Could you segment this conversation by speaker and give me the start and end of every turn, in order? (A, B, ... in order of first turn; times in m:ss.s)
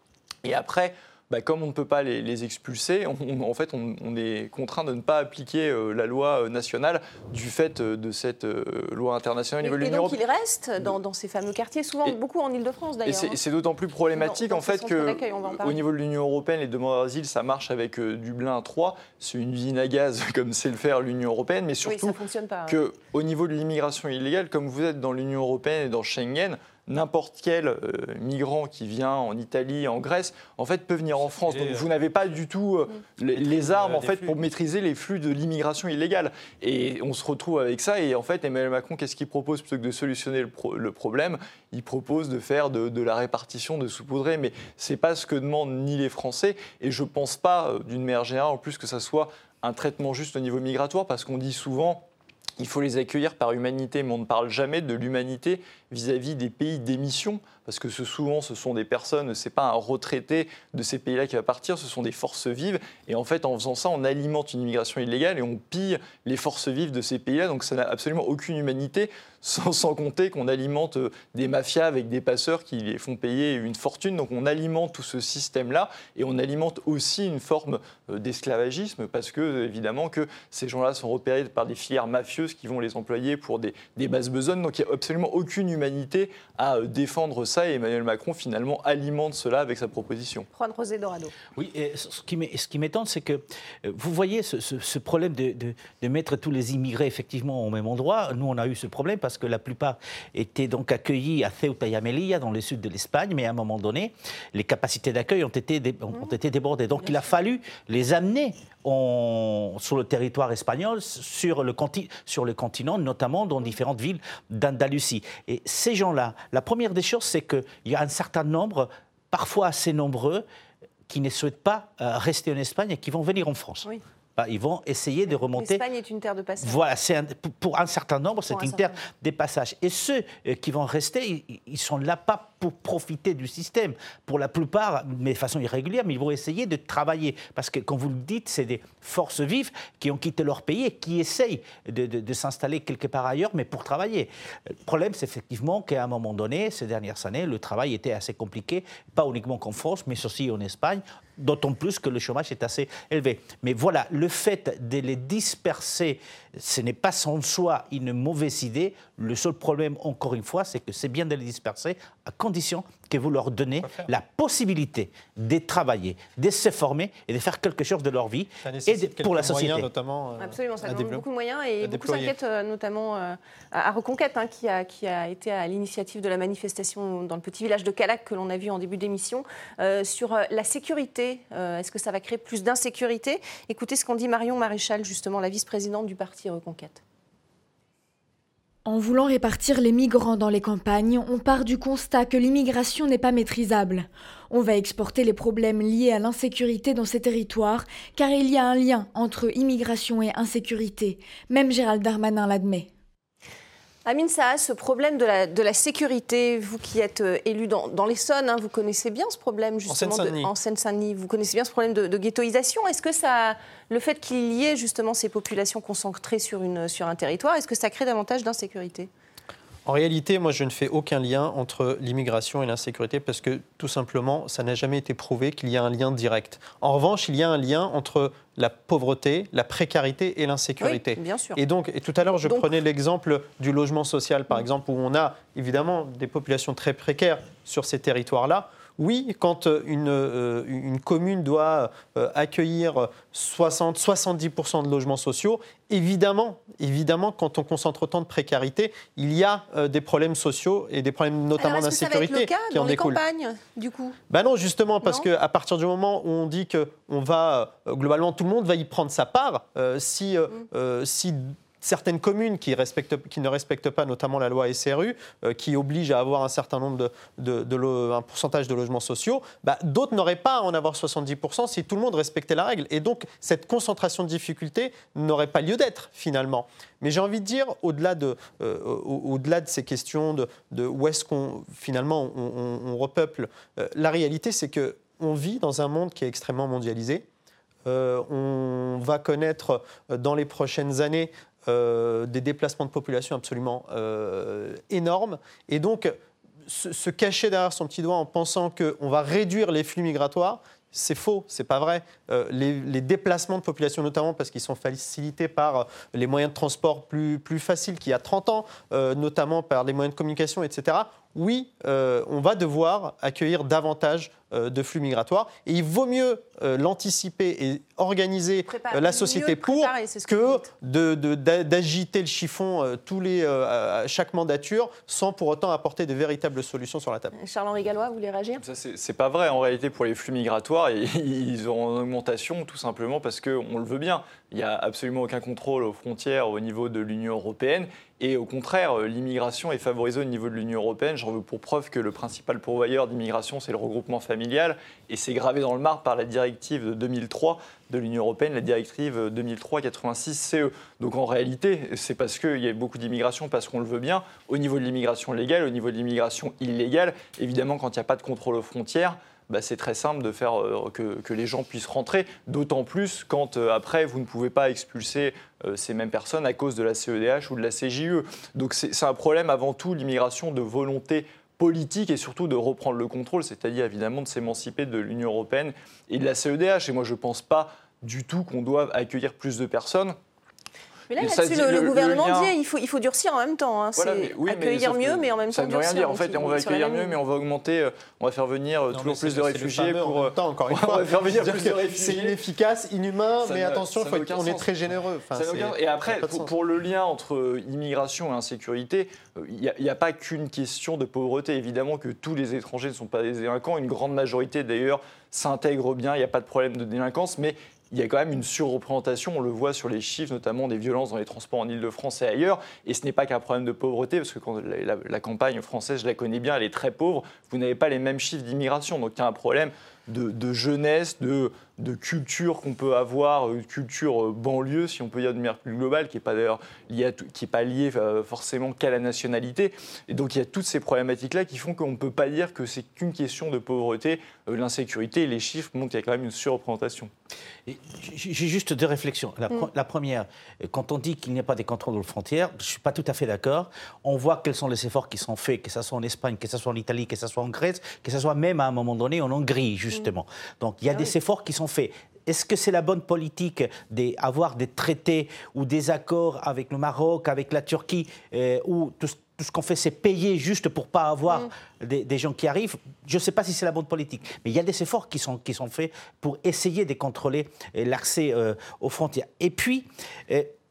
0:00.4-0:10.2 A
0:09.6-0:13.4 B
0:13.0-0:52.0 A
0:14.1-0:15.8 B
0:21.8-0:22.8 B
0:31.2-0:31.9 C
0:33.4-0:34.4 C
0:52.6-1:30.5 A
1:30.5-1:31.3 B
1:31.5-2:00.4 D
2:01.1-2:05.8 D
2:05.5-2:06.8 B
2:06.6-2:49.9 D
2:08.5-2:08.9 B
2:48.6-2:51.2 C
2:50.4-3:07.0 B
2:51.8-2:52.3 C
3:08.9-3:22.9 E
3:24.0-3:39.1 B
3:29.9-3:30.5 C
3:39.9-4:13.2 C
3:50.8-3:51.6 B
3:52.4-3:52.7 B
4:11.6-4:14.2 B
4:14.3-4:47.2 C
4:15.0-4:15.3 B
4:47.8-4:56.2 C
4:56.7-5:27.3 C
5:18.6-5:20.7 B
5:27.3-5:28.6 B
5:28.6-6:20.2 A
6:21.1-6:27.2 B
6:21.2-6:22.5 A
6:24.0-6:32.4 A
6:28.9-6:36.5 C
6:33.4-6:34.7 A
6:35.3-7:17.1 A
7:17.7-7:50.5 D